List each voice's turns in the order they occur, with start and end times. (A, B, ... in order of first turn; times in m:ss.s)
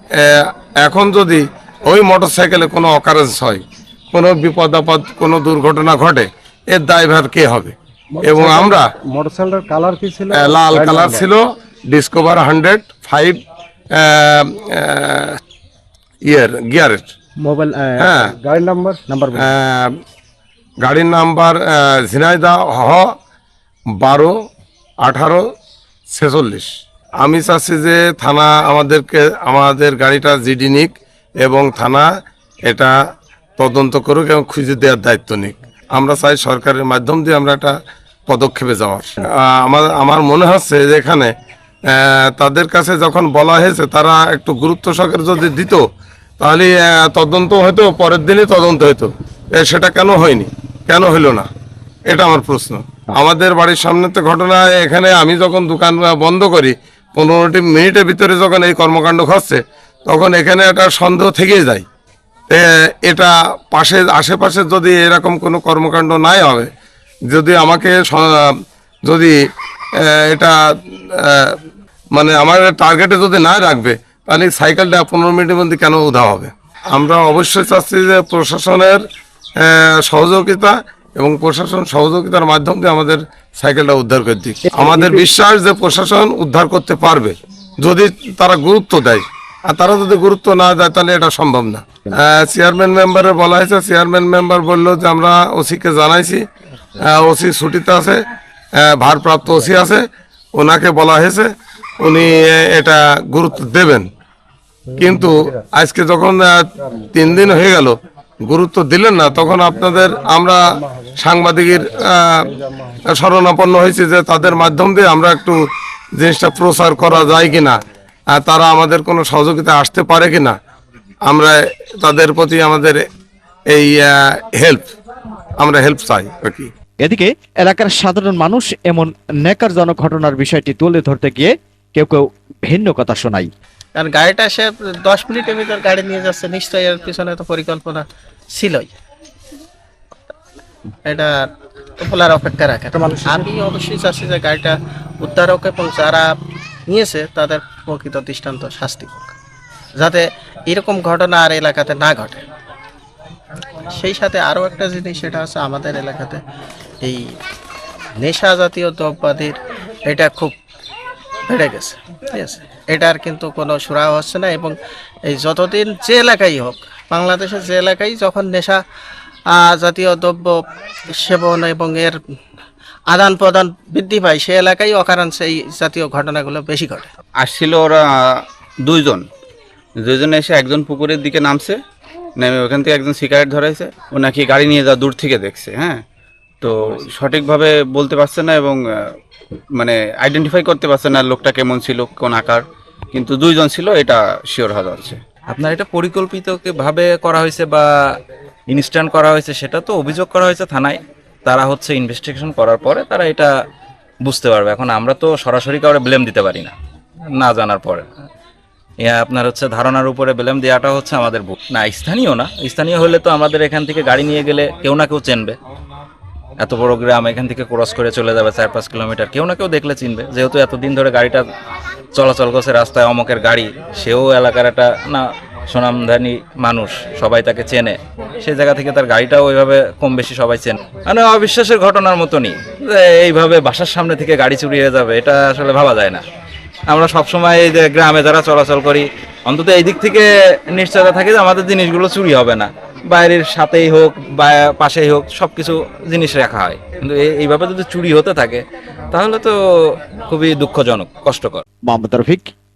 0:00.2-0:08.9 A
0:08.2-0:11.2 B
0:10.3-0:13.4 A
0:13.9-0:15.4 A
0:16.3-0:17.1 A
0:17.4-0:19.4 B
0:18.0-0:18.3 A
0:19.3-0:19.9 A
0:20.8-0:23.0 A
0:24.0-0:24.3 A
0:25.0-0:25.4 A
0:26.1-0:26.7 A
0:27.2-0:32.0 A
0:33.6-0:37.7 A
0:38.3-0:41.3 A
0:41.9-0:45.8 A
0:46.4-0:51.5 A
0:52.1-1:01.8 A
1:02.5-1:06.7 A
1:07.3-1:09.3 A
1:10.0-1:11.6 A
1:12.1-1:19.0 A
1:19.6-1:36.4 A
1:37.0-1:38.2 A
1:38.8-1:40.0 A
1:40.5-1:44.1 A
1:44.9-1:52.5 A
1:53.1-1:55.6 A
1:56.2-1:57.8 A
1:58.3-2:00.5 A
2:01.2-2:03.0 A
2:03.7-2:04.9 A
2:05.6-2:06.7 A
2:07.0-2:13.5 C
2:13.9-2:18.9 D
2:21.0-2:26.3 D
2:23.1-2:23.4 B
2:26.9-2:29.3 D
2:30.0-2:32.4 D
2:33.9-2:36.4 D
2:37.0-2:37.4 D
2:38.2-2:40.6 D
2:41.5-2:48.8 D
2:49.5-2:52.2 D
2:53.1-2:57.1 D
2:57.4-2:59.3 E
3:00.0-3:01.8 E
3:02.4-3:06.0 E
3:06.6-3:09.2 E
3:09.7-3:15.2 E
3:15.5-3:17.9 F
3:18.7-3:23.5 F
3:24.2-3:26.7 F
3:27.3-3:28.0 F
3:29.0-3:35.6 F
3:36.6-3:41.4 F
3:42.1-3:56.2 F
3:56.9-4:09.6 F
4:10.2-4:11.6 F
4:11.9-4:12.5 C